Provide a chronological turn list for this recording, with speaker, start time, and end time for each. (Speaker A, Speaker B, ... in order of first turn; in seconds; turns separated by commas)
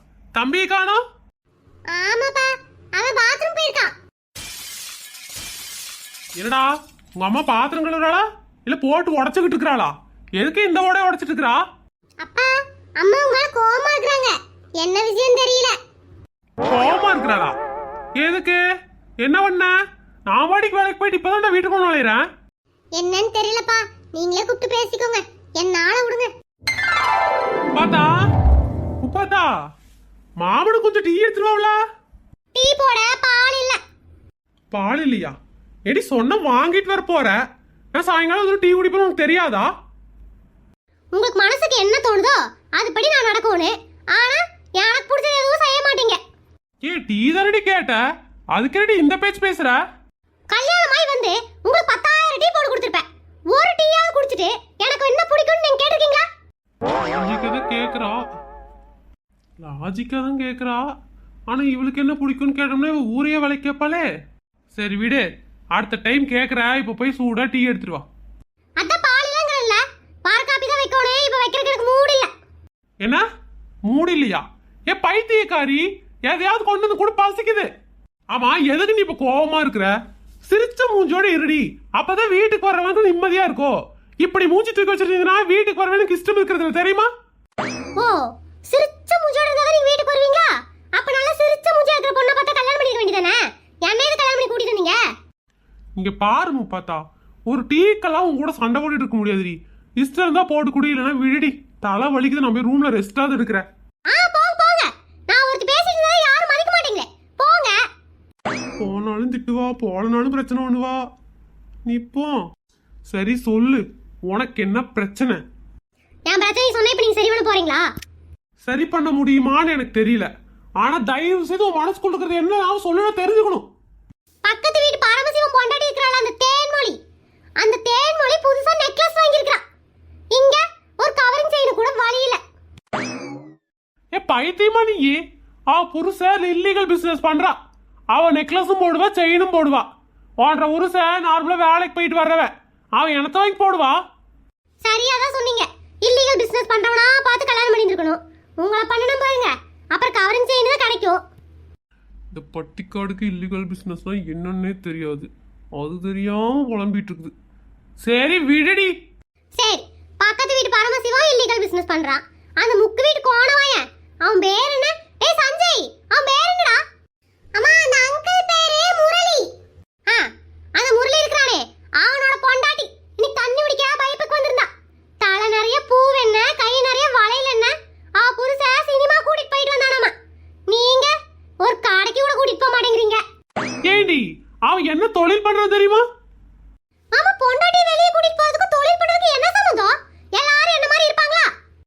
Speaker A: 0.3-1.0, Speaker B: 1.9-3.9, Speaker A: 6.4-11.6, Speaker B: 12.2-15.8, Speaker A: 16.6-17.5, Speaker A: 18.2-18.6, Speaker A: 19.2-19.7, Speaker A: 20.3-22.2, Speaker B: 22.9-26.3, Speaker A: 27.7-28.1, Speaker A: 29.0-29.5, Speaker A: 30.4-31.8, Speaker B: 32.5-33.8, Speaker A: 34.7-35.3, Speaker A: 35.9-37.4, Speaker A: 37.9-39.7, Speaker B: 41.1-46.2, Speaker A: 46.8-48.0, Speaker A: 48.5-49.8, Speaker B: 50.5-56.2, Speaker A: 56.9-58.2, Speaker A: 59.6-60.8, Speaker A: 61.5-64.0, Speaker A: 64.7-68.0, Speaker B: 68.8-72.3, Speaker A: 73.9-77.7, Speaker A: 78.3-79.9, Speaker A: 80.5-87.1, Speaker B: 88.0-95.0, Speaker A: 96.0-103.6, Speaker B: 104.1-107.8, Speaker A: 108.8-111.0, Speaker A: 111.8-112.4, Speaker A: 113.1-115.4, Speaker B: 116.3-117.8, Speaker A: 118.6-120.3, Speaker A: 120.8-123.7, Speaker B: 124.4-127.0, Speaker B: 127.6-129.6, Speaker B: 130.3-132.4, Speaker A: 134.1-135.2, Speaker A: 135.7-137.5, Speaker A: 138.1-139.8, Speaker A: 140.4-144.0, Speaker B: 144.8-151.2, Speaker A: 152.3-157.3, Speaker A: 158.0-158.9, Speaker B: 159.6-166.8, Speaker B: 167.5-169.5, Speaker B: 170.1-174.7, Speaker B: 175.2-180.1, Speaker B: 180.7-183.2, Speaker A: 183.8-186.1, Speaker B: 187.1-191.5